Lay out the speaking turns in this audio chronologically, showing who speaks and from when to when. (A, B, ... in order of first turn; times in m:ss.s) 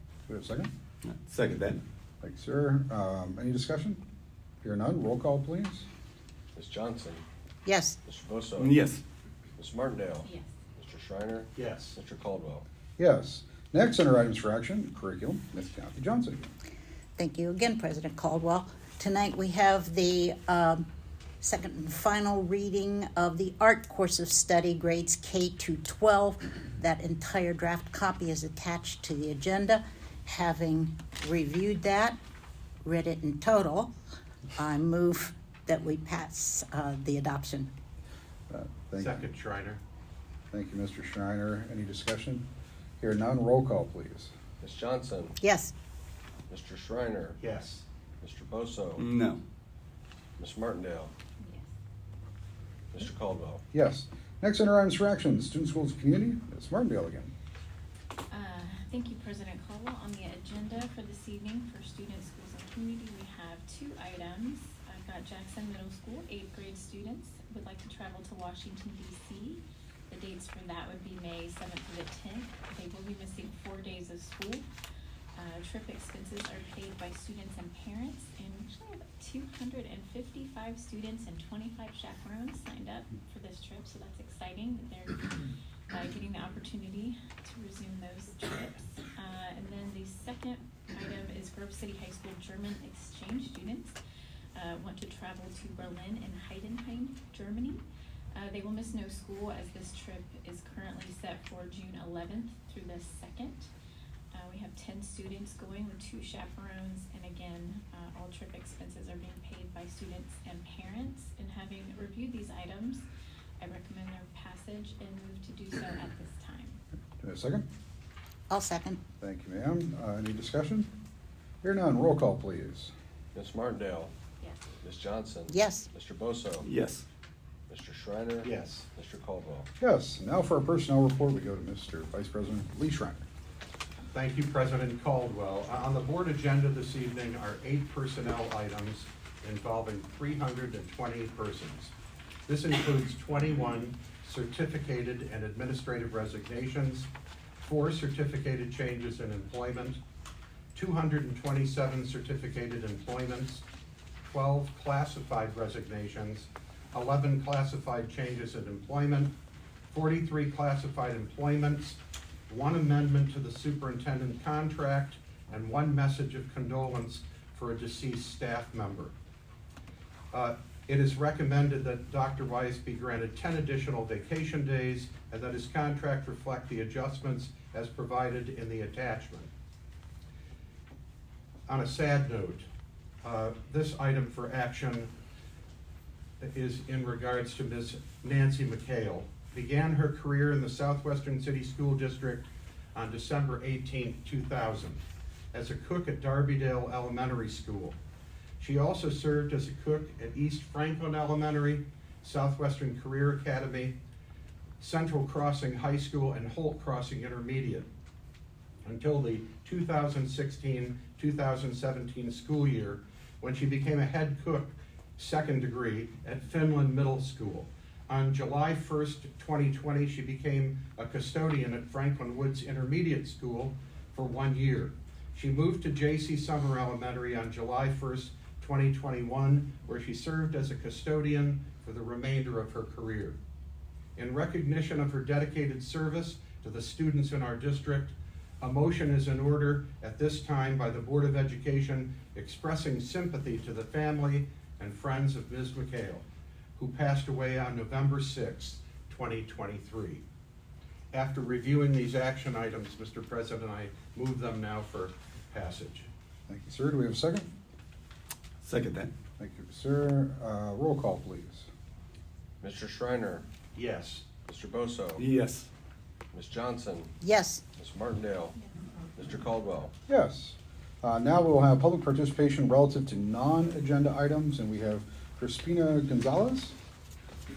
0:00.3-0:00.7 A
0:01.1-0:01.8 B
0:02.2-0:04.0 A
0:04.6-0:05.9 A
0:06.6-0:07.2 C
0:07.6-0:08.0 D
0:08.0-0:08.8 C
0:08.6-0:09.0 B
0:09.6-0:12.6 C
0:10.2-0:10.5 E
0:11.6-0:12.0 F
0:13.0-0:16.5 A
0:17.2-0:20.9 D
0:21.4-0:32.2 D
0:32.8-0:33.9 D
0:34.6-0:37.7 D
0:38.5-0:39.3 A
0:39.0-0:39.8 F
0:40.5-0:42.5 A
0:43.0-0:44.3 A
0:44.6-0:45.4 C
0:45.4-0:45.7 D
0:46.5-0:47.4 C
0:47.4-0:47.8 F
0:48.2-0:49.0 C
0:49.0-0:49.4 B
0:50.4-0:51.1 C
0:51.4-0:51.7 E
0:52.9-0:53.6 C
0:53.7-0:57.3 A
0:58.3-1:14.7 E
1:15.4-1:34.0 E
1:34.6-1:43.7 E
1:44.3-1:53.0 E
1:53.6-1:56.8 E
1:57.2-1:57.7 A
1:58.5-1:59.0 D
1:59.2-2:00.9 A
2:01.6-2:02.9 A
2:03.3-2:04.1 C
2:04.8-2:06.7 C
2:05.5-2:05.9 D
2:06.6-2:07.0 B
2:07.7-2:09.7 C
2:08.4-2:08.9 F
2:09.8-2:13.2 A
2:14.1-2:21.9 F
2:22.5-2:27.1 F
2:27.6-2:30.0 F
2:30.7-2:33.6 F
2:34.3-2:39.4 F
2:39.9-2:49.1 F
2:50.3-2:59.5 F
3:01.7-3:02.7 F
3:03.2-3:05.1 F
3:06.4-3:15.0 F
3:15.5-3:18.0 F
3:18.6-3:24.0 F
3:24.8-3:27.9 F
3:28.8-3:53.4 F
3:54.2-4:06.2 F
4:06.8-4:10.2 F
4:11.1-4:16.1 F
4:16.5-4:17.5 A
4:18.6-4:19.1 B
4:19.4-4:21.7 A
4:22.6-4:23.5 C
4:23.8-4:24.3 F
4:24.4-4:25.3 C
4:25.2-4:25.7 B
4:26.3-4:27.2 C
4:27.2-4:27.6 D
4:27.8-4:28.6 C
4:29.2-4:29.9 C
4:30.1-4:36.8 A